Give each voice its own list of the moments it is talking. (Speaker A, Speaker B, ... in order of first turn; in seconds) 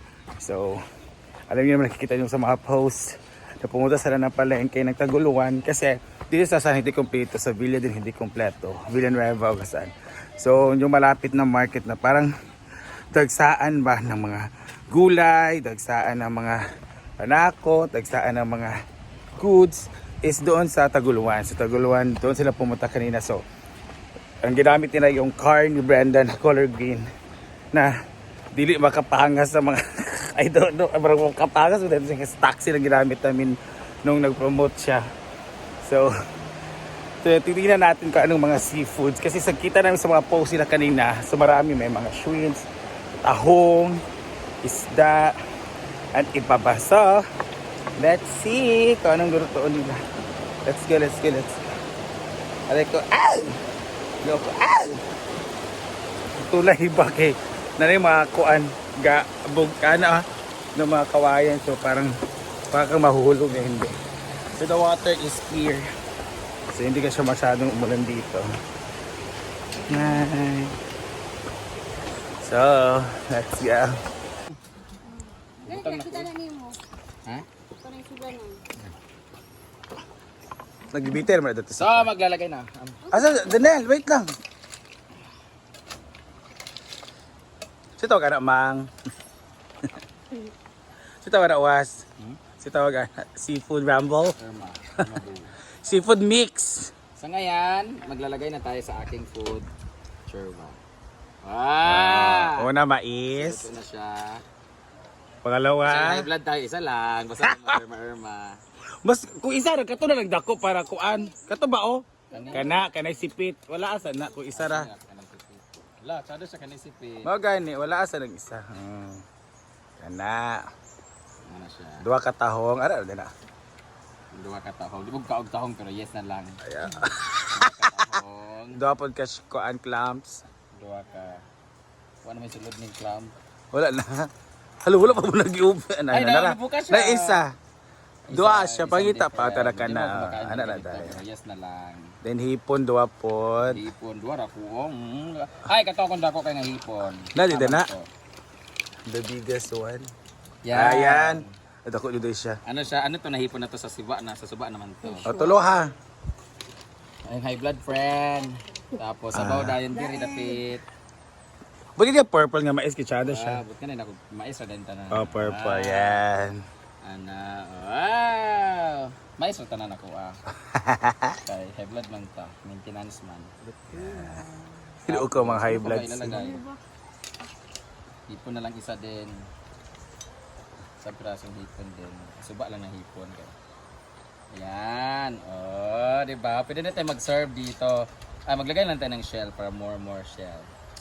Speaker A: 0.4-0.8, 1.5-12.3, 13.1-16.6, 17.2-18.7, 19.4-23.4, 24.4-27.0, 28.5-35.0, 35.8-36.1, 37.2-42.7, 43.2-44.0, 44.6-45.4, 46.1-47.2, 48.0-50.0, 50.6-51.6, 52.7-53.6, 54.2-55.0, 56.4-60.2, 60.7-62.1, 62.7-63.9, 64.5-65.9, 66.7-68.5, 69.9-70.8, 72.4-73.9, 80.9-82.1, 83.1-84.3, 88.0-88.9, 91.2-92.0, 92.6-94.3, 95.8-96.9, 101.8-103.7, 105.4-106.3, 107.4-107.8, 109.0-114.9, 117.2-119.2, 120.0-120.6, 122.0-123.3, 126.6-128.0, 128.7-130.4, 133.7-134.3, 134.8-137.5, 138.3-141.2, 142.2-143.8, 147.3-147.9, 149.1-150.1, 150.7-152.6, 155.2-155.9, 159.3-159.8, 162.0-163.6, 165.1-166.6, 170.7-171.3, 173.9-174.4, 175.0-176.6
Speaker B: 75.1-76.8, 77.8-78.6, 83.1-83.5
Speaker C: 75.6-76.3, 81.8-83.0, 94.4-95.5, 97.2-99.7, 100.2-100.8, 101.4-102.7, 103.4-104.4, 105.8-108.6, 112.3-112.8, 114.5-117.3, 121.5-122.0, 124.3-128.8, 130.7-131.4, 132.2-133.3, 136.1-137.4, 138.3-142.2, 143.7-148.1, 150.6-151.5, 152.7-155.3, 157.2-160.8, 163.2-166.2, 167.0-170.4, 171.4-173.5, 175.1-176.6, 178.3-179.5, 181.0-183.5, 184.5-190.7